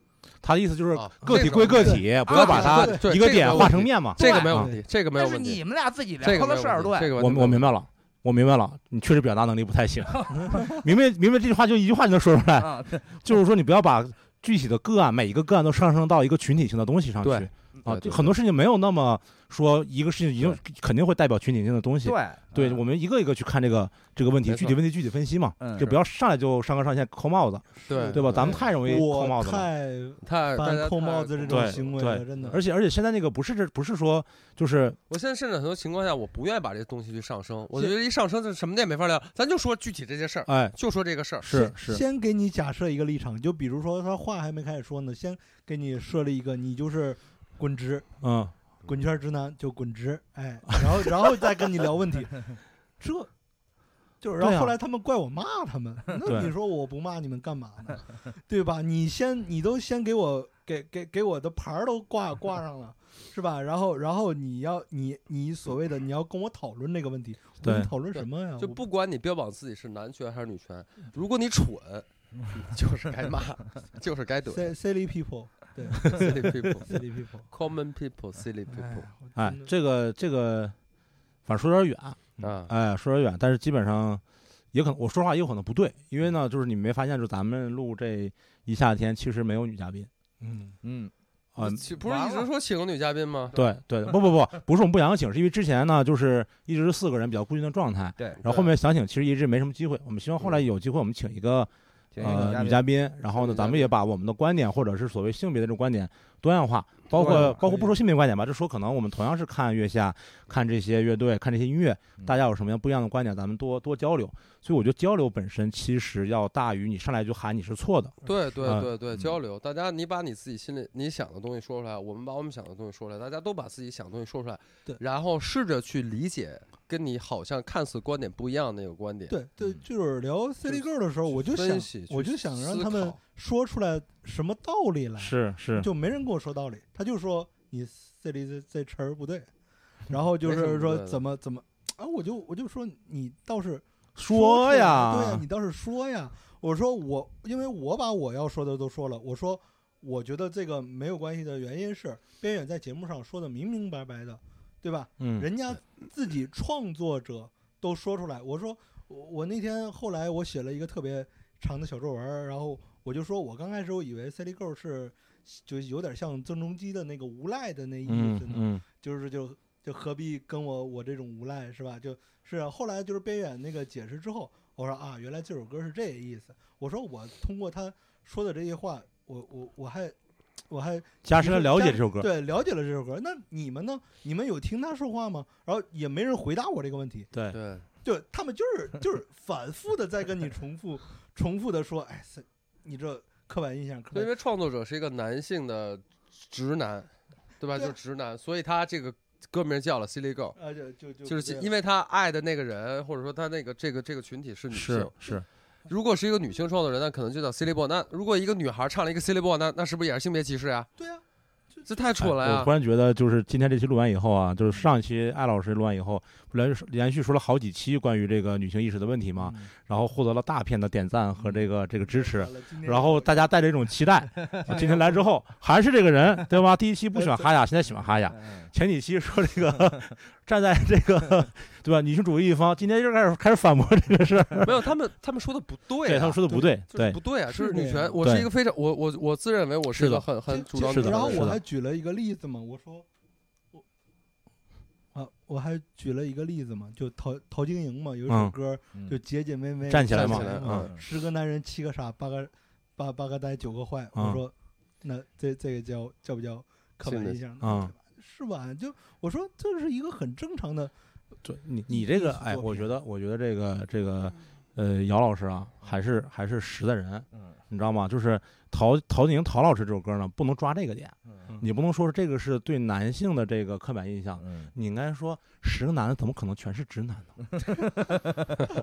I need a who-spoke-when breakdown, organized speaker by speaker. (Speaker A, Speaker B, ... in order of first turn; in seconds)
Speaker A: 0.4-4.7, 7.2-29.7, 31.5-35.0, 40.5-40.8, 41.4-42.0, 48.2-48.5, 54.4-54.8, 56.3-56.5, 67.6-67.9, 79.4-80.8, 81.5-84.2, 84.7-90.1, 91.6-91.8, 93.5-118.9, 135.2-135.9, 144.2-145.4, 155.2-155.5, 168.1-168.8, 181.2-182.3, 187.3-187.6, 204.7-205.4, 212.2-234.9, 236.1-237.2, 238.2-238.5, 239.9-241.6, 248.3-248.6, 249.9-250.9, 254.2-254.4, 257.6-257.9, 261.4-277.4
Speaker B: 0.9-5.6, 6.2-7.7, 17.2-18.3, 24.5-24.8, 27.9-28.7, 30.2-31.9, 35.1-41.5, 68.6-74.8, 76.1-79.1, 82.4-82.7, 91.6-93.6, 98.4-98.7, 100.4-100.6, 103.4-103.9, 118.2-129.4, 130.6-133.2, 140.4-141.2, 187.5-187.9, 194.1-200.6, 201.2-205.3, 205.9-210.9, 211.8-212.7, 234.6-241.6, 250.1-250.9, 257.0-257.4
Speaker C: 1.8-3.0, 27.9-32.6, 41.5-48.1, 48.9-53.3, 54.2-68.8, 74.5-77.5, 78.7-79.7, 129.3-139.5, 140.1-180.2, 180.7-187.3, 188.0-194.3, 200.6-201.7, 211.0-211.2, 211.7-212.0, 222.1-223.4, 224.7-225.2, 227.2-227.5, 236.5-236.8, 237.5-238.2, 240.5-243.1, 245.1-260.9, 261.9-262.9
Speaker D: 2.2-2.9, 4.2-4.6, 5.1-7.1, 12.6-13.1, 17.8-18.3, 22.0-22.8, 25.6-25.9, 90.8-91.1, 92.0-92.5, 102.1-103.5, 107.1-107.9, 228.3-228.7, 267.3-267.6, 274.4-274.7